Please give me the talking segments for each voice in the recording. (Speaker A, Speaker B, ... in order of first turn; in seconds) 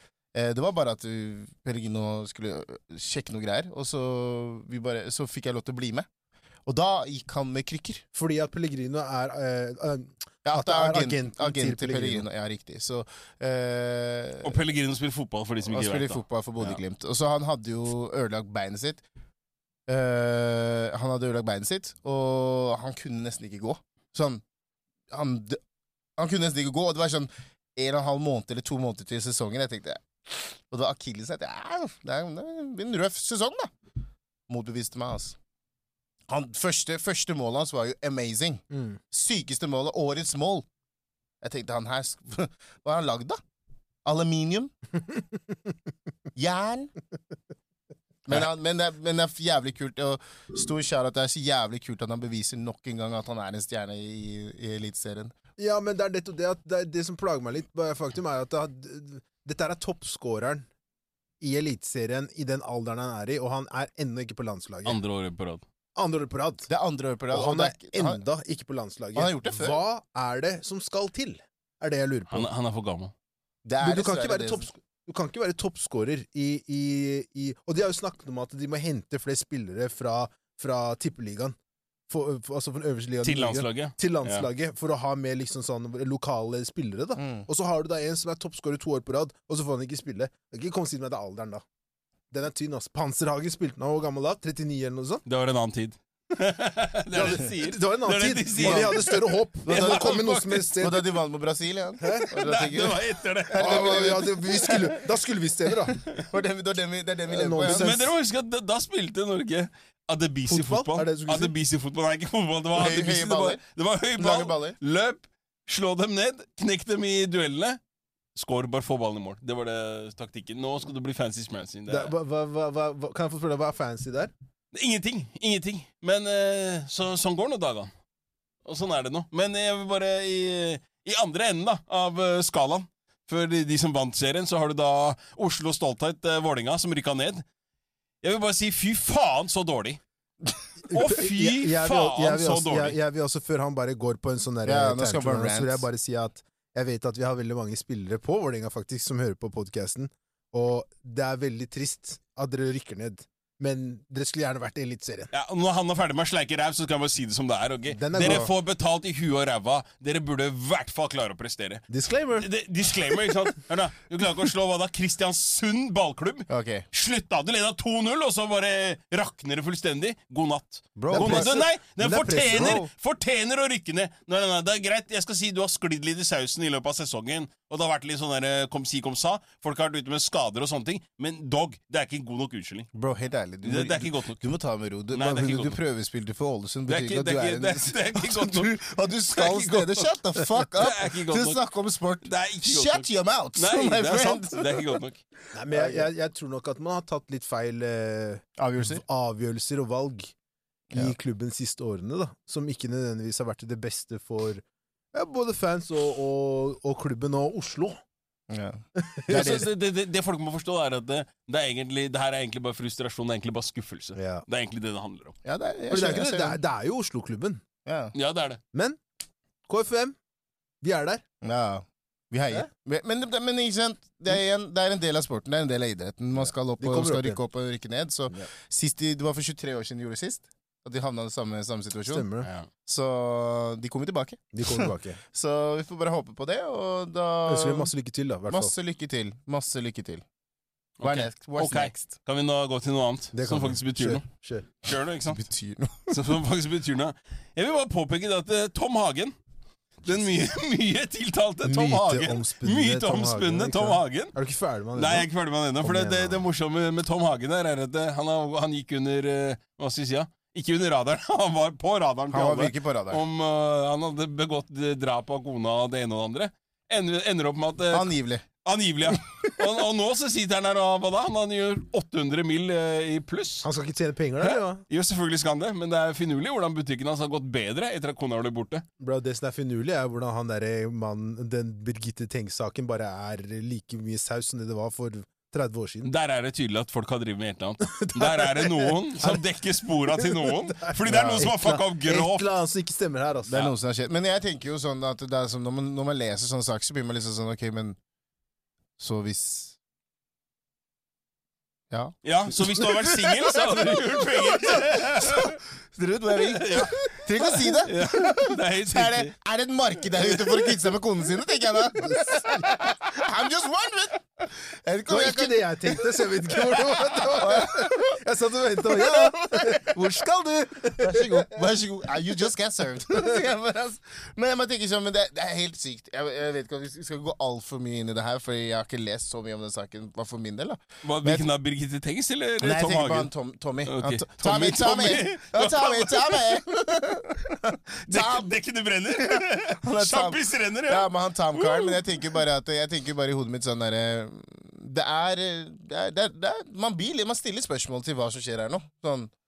Speaker A: 0.3-6.1, 6.7-8.0, 10.4-14.6, 15.7-19.0, 19.9-24.4, 25.1-25.6, 26.2-33.7, 34.5-35.4, 36.3-40.6, 41.4-43.4, 44.0-44.7, 46.4-46.9, 48.2-55.3, 66.7-68.2, 69.1-69.8, 73.6-74.7, 87.2-87.5, 98.6-99.1, 99.7-105.0, 106.1-108.0, 112.7-113.6, 114.2-114.8, 144.6-145.9, 158.2-158.5, 166.5-166.9, 171.1-171.6, 172.5-172.9, 182.9-194.9, 195.7-196.1, 198.6-199.0, 208.5-209.7, 215.4-216.6, 217.8-218.1, 221.4-232.3, 232.9-237.9, 238.5-240.2, 241.0-242.1, 245.2-246.3, 262.3-263.2, 267.9-268.4, 291.1-291.5, 293.5-298.0, 299.0-299.8, 301.9-318.2, 318.8-320.1, 320.9-331.5, 332.6-338.5, 339.2-349.3
Speaker B: 8.1-12.3, 38.7-39.0, 55.6-60.7, 61.4-65.0, 66.0-66.7, 67.3-72.5, 73.8-81.5, 82.1-91.6, 92.3-95.2, 97.1-101.1, 102.0-102.3, 103.5-106.0, 107.3-108.1, 110.5-111.5, 121.9-124.3, 140.9-155.3, 157.9-158.5, 161.9-162.5, 171.0-172.8, 195.5-200.3, 200.9-204.6, 205.1-208.0, 209.0-209.7, 214.2-214.4, 215.9-217.6, 218.7-219.0, 219.7-220.2, 220.8-221.2, 226.3-227.4, 232.1-232.5, 234.5-235.2, 237.5-238.8, 243.3-244.7, 251.6-255.3, 255.8-256.4, 273.6-274.8, 279.0-286.1, 287.9-289.5, 290.1-293.6, 312.0-312.8, 315.1-321.6
Speaker C: 14.4-16.8, 64.8-65.6, 72.3-73.1, 83.2-84.5, 95.2-100.2, 102.3-104.7, 107.7-117.8, 118.3-122.1, 124.7-127.9, 128.6-137.4, 138.2-140.0, 140.9-143.0, 155.3-182.9, 183.6-184.4, 185.1-185.8, 186.9-188.8, 189.3-191.6, 192.2-195.2, 209.3-215.3, 218.1-218.6, 232.4-232.7, 241.0-244.2, 244.8-245.4, 246.1-249.3, 250.0-254.3, 254.9-268.1, 268.6-273.7, 274.4-278.8, 286.0-292.5, 302.2-305.6, 306.4-309.3, 310.2-310.9, 331.0-333.3, 333.9-336.6, 338.1-342.2